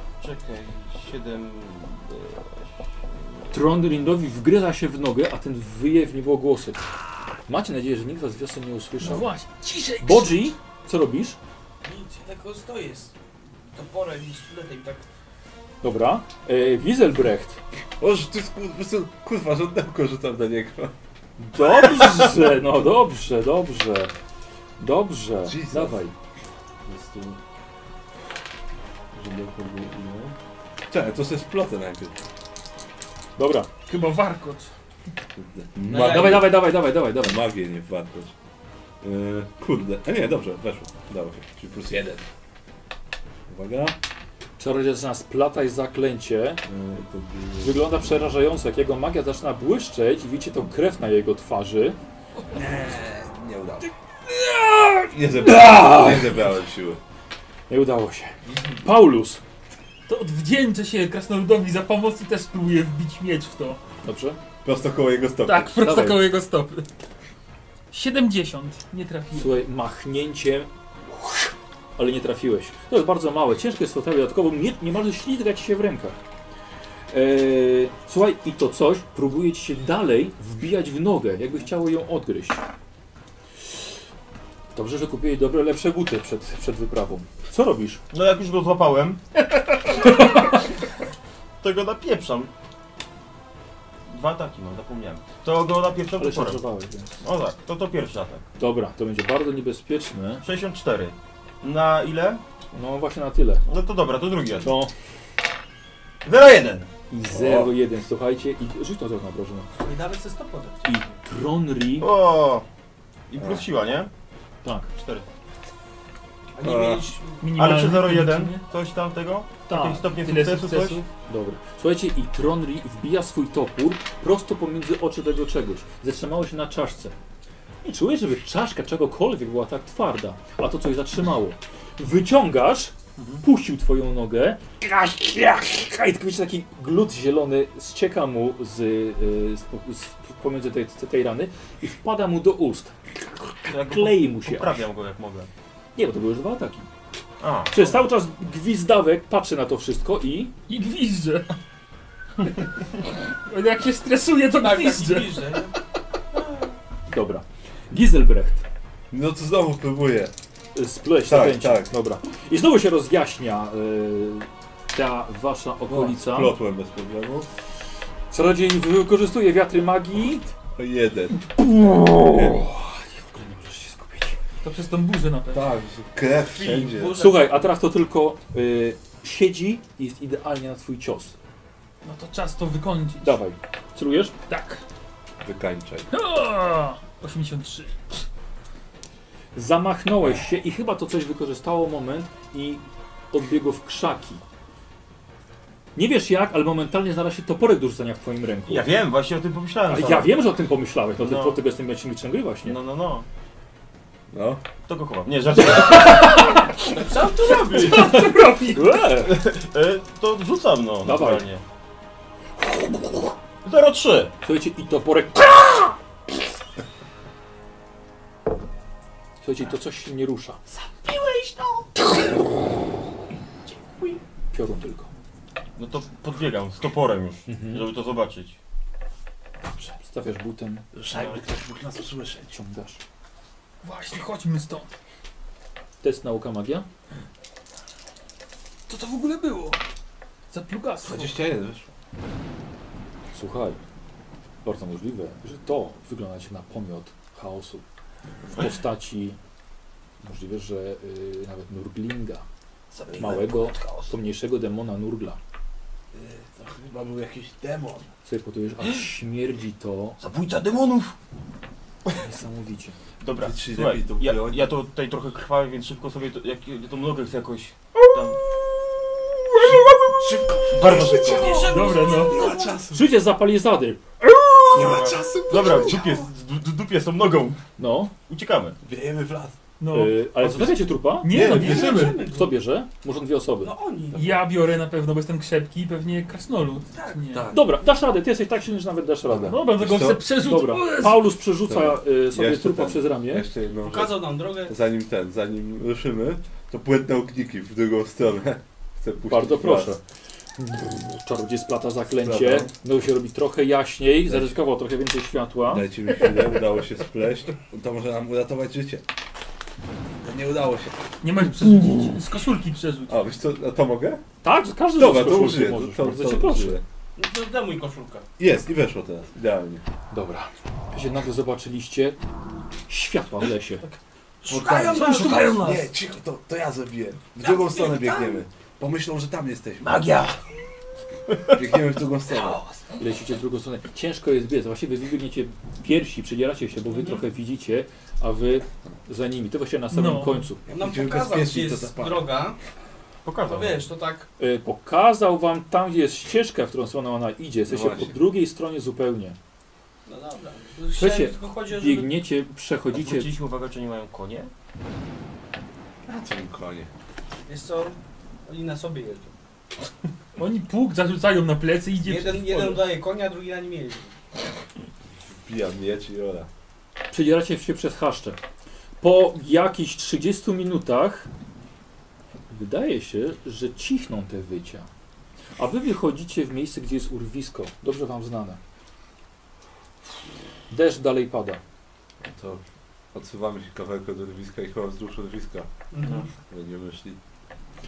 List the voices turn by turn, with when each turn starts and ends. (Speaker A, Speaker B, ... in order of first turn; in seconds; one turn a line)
Speaker A: 0.2-3.2
Speaker B: 3.5-6.8
Speaker B: 7.5-9.3
Speaker C: 9.0-10.5
Speaker B: 10.0-11.4
Speaker D: 11.8-13.1
Speaker D: 13.7-15.1
Speaker B: 15.8-17.6
Speaker E: 18.0-20.9
Speaker B: 21.4-24.1
Speaker B: 24.8-26.1
Speaker E: 25.4-26.0
Speaker E: 26.9-27.4
Speaker E: 29.1-30.4
Speaker E: 30.9-32.2
Speaker B: 33.4-33.7
Speaker C: 33.9-34.7
Speaker E: 35.4-38.3
Speaker D: 35.9-36.5
Speaker B: 35.9-37.4
Speaker E: 39.0-42.2
Speaker E: 43.5-44.0
Speaker B: 44.6-46.6
Speaker E: 46.6-47.8
Speaker B: 47.6-52.0
Speaker E: 52.5-53.9
Speaker E: 55.1-57.0
Speaker B: 55.4-56.5
Speaker B: 57.7-59.4
Speaker C: 60.1-63.8
Speaker B: 64.0-64.4
Speaker E: 64.6-65.8
Speaker C: 65.4-66.9
Speaker B: 65.8-66.3
Speaker C: 67.9-69.6
Speaker B: 69.3-70.7
Speaker B: 72.0-76.2
Speaker B: 77.1-82.6
Speaker B: 84.7-88.0
Speaker A: 88.1-89.2
Speaker A: 91.6-92.5
Speaker A: 94.1-96.6
Speaker B: 96.2-97.1
Speaker A: 97.2-98.5
Speaker B: 98.6-100.4
Speaker A: 100.4-102.4
Speaker B: 102.7-103.6
Speaker A: 103.7-104.7
Speaker B: 104.6-104.9
Speaker A: 106.2-106.9
Speaker B: 107.1-109.7
Speaker E: 107.3-107.7
Speaker D: 109.8-111.0
Speaker B: 110.8-112.1
Speaker A: 112.0-112.7
Speaker A: 113.3-114.1
Speaker E: 113.4-113.6
Speaker B: 114.6-114.9
Speaker A: 114.9-115.3
Speaker D: 116.6-117.4
Speaker E: 116.6-117.1
Speaker C: 117.4-118.6
Speaker A: 117.5-121.0
Speaker C: 119.7-121.1
Speaker B: 121.3-127.1
Speaker B: 127.8-142.9
Speaker A: 133.2-133.4
Speaker B: 143.6-144.8
Speaker A: 143.7-145.5
Speaker B: 145.9-146.9
Speaker A: 147.4-148.0
Speaker B: 147.7-150.5
Speaker C: 150.7-151.5
Speaker C: 153.1-155.6
Speaker D: 154.5-155.8
Speaker B: 157.1-158.6
Speaker E: 159.1-160.3
Speaker B: 160.7-166.6
Speaker E: 161.2-161.9
Speaker E: 165.9-167.5
Speaker B: 168.3-170.5
Speaker E: 170.7-171.4
Speaker B: 171.7-174.4
Speaker E: 172.2-172.6
Speaker C: 174.6-175.7
Speaker E: 175.5-177.2
Speaker D: 176.5-177.4
Speaker B: 177.2-181.3
Speaker C: 182.0-183.4
Speaker B: 183.2-184.3
Speaker C: 184.5-184.8
Speaker E: 185.4-186.1
Speaker C: 186.1-188.0
Speaker B: 189.6-194.4
Speaker B: 195.9-198.9
Speaker A: 198.7-200.4
Speaker B: 199.9-202.8
Speaker A: 201.2-201.6
Speaker A: 202.6-203.3
Speaker E: 204.3-204.6
Speaker A: 204.9-206.4
Speaker B: 205.7-206.2
Speaker D: 206.9-208.3
Speaker A: 207.4-208.1
Speaker C: 207.7-209.0
Speaker B: 207.8-209.4
Speaker A: 209.2-211.6
Speaker B: 211.0-211.4
Speaker A: 213.6-214.3
Speaker B: 214.4-216.0
Speaker B: 219.4-220.6
Speaker A: 221.1-221.5
Speaker B: 224.5-225.1
Speaker A: 225.8-228.6
Speaker B: 227.4-227.9
Speaker B: 229.8-230.9
Speaker E: 230.9-232.6
Speaker A: 231.1-231.4
Speaker B: 232.5-233.0
Speaker C: 233.8-234.9
Speaker B: 236.0-236.8
Speaker C: 238.9-239.8
Speaker C: 240.5-241.4
Speaker E: 241.0-241.9
Speaker B: 243.3-243.8
Speaker B: 244.6-247.8
Speaker B: 248.5-249.4
Speaker B: 250.2-252.4
Speaker A: 252.9-254.1
Speaker B: 253.1-255.4
Speaker E: 256.1-258.1
Speaker B: 258.2-260.2
Speaker A: 260.2-261.1
Speaker B: 262.1-263.0
Speaker A: 263.2-268.4
Speaker E: 263.4-264.7
Speaker E: 269.6-273.1
Speaker A: 270.7-271.7
Speaker D: 271.3-272.8
Speaker C: 271.6-272.4
Speaker B: 272.9-274.0
Speaker E: 274.7-276.2
Speaker A: 274.7-277.6
Speaker B: 277.8-278.1
Speaker A: 278.3-278.8
Speaker E: 278.8-279.6
Speaker C: 279.8-282.2
Speaker B: 279.9-283.7
Speaker E: 280.4-280.7
Speaker E: 281.3-282.2
Speaker D: 281.4-282.5
Speaker D: 283.6-284.4
Speaker C: 284.1-287.5
Speaker E: 287.3-287.8
Speaker B: 287.5-293.5
Speaker E: 289.3-290.2
Speaker C: 289.4-291.3
Speaker E: 291.7-300.0
Speaker D: 293.8-294.7
Speaker B: 299.3-300.0
Speaker B: 300.6-305.9
Speaker E: 302.2-302.7
Speaker E: 304.3-304.6
Speaker E: 305.7-309.0
Speaker E: 310.2-311.0
Speaker C: 311.2-313.2
Speaker E: 313.1-314.2
Speaker B: 314.4-316.8
Speaker E: 314.9-316.8
Speaker D: 317.1-318.3
Speaker E: 318.4-319.9
Speaker B: 320.1-322.2
Speaker B: 322.9-323.8
Speaker D: 324.4-325.9
Speaker E: 324.5-330.1
Speaker C: 324.9-325.7
Speaker A: 325.0-325.6
Speaker D: 327.4-328.4
Speaker A: 329.9-330.4
Speaker A: 331.3-331.6
Speaker E: 331.5-332.6
Speaker B: 333.0-340.6
Speaker C: 339.9-340.4
Speaker D: 340.6-342.6
Speaker E: 340.7-342.3
Speaker A: 343.2-343.8
Speaker D: 343.4-344.3
Speaker B: 344.4-349.4
Speaker E: 347.7-348.2
Speaker D: 350.1-352.1
Speaker B: 350.9-353.4
Speaker A: 352.9-354.5
Speaker E: 356.1-356.9
Speaker D: 357.5-359.3
Speaker C: 360.4-362.9
Speaker D: 362.0-364.1
Speaker E: 365.3-366.5
Speaker B: 367.1-368.4
Speaker B: 369.0-371.3
Speaker B: 372.5-374.9
Speaker B: 375.6-378.6
Speaker B: 380.7-381.6
Speaker E: 382.2-382.6
Speaker E: 383.1-385.7
Speaker D: 385.9-386.3
Speaker A: 386.0-386.3
Speaker E: 386.5-387.2